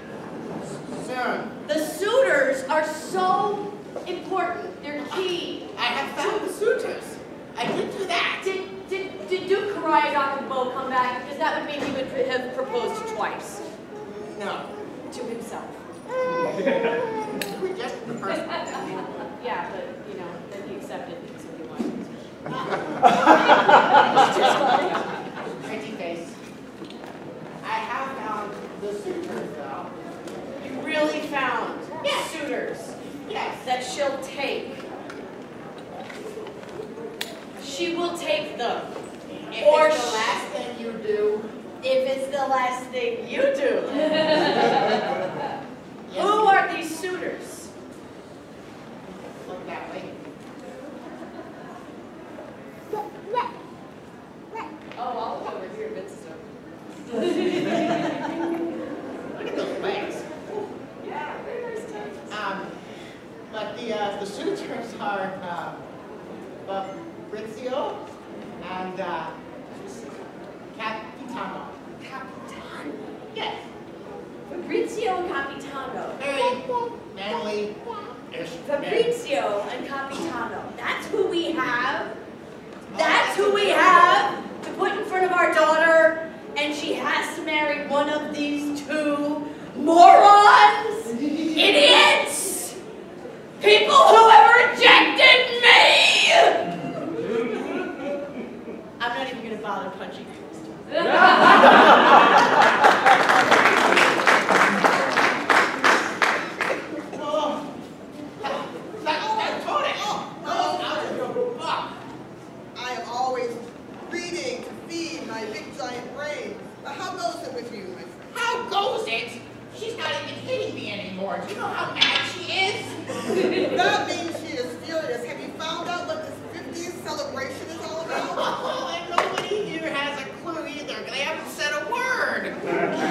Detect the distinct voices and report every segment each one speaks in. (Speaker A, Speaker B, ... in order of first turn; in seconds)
Speaker A: 0.6-1.6, 5.7-8.5, 14.0-14.7, 16.4-19.2, 22.5-22.8, 23.4-24.5, 25.5-26.4, 27.6-29.9, 33.2-33.6, 39.5-41.5, 46.1-46.5, 49.3-50.1, 59.3-60.3, 62.3-62.7, 63.5-65.8, 66.6-68.0, 68.6-70.0, 70.7-71.8, 76.2-79.1, 82.9-84.2, 107.1-107.7, 108.4-112.0, 118.3-123.7, 128.2-132.9
Speaker B: 1.6-5.7, 8.4-13.6, 15.1-15.8, 19.3-22.1, 23.1-25.1, 30.6-33.0, 33.6-34.8, 37.6-38.9, 39.5-40.5, 41.8-45.0, 46.1-47.7, 54.9-56.5, 57.1-58.2, 61.0-62.3, 72.0-73.6, 74.5-76.3, 78.6-82.2, 82.9-92.8, 93.6-96.5, 99.0-101.7
Speaker C: 109.1-111.2, 112.7-118.4, 123.6-128.5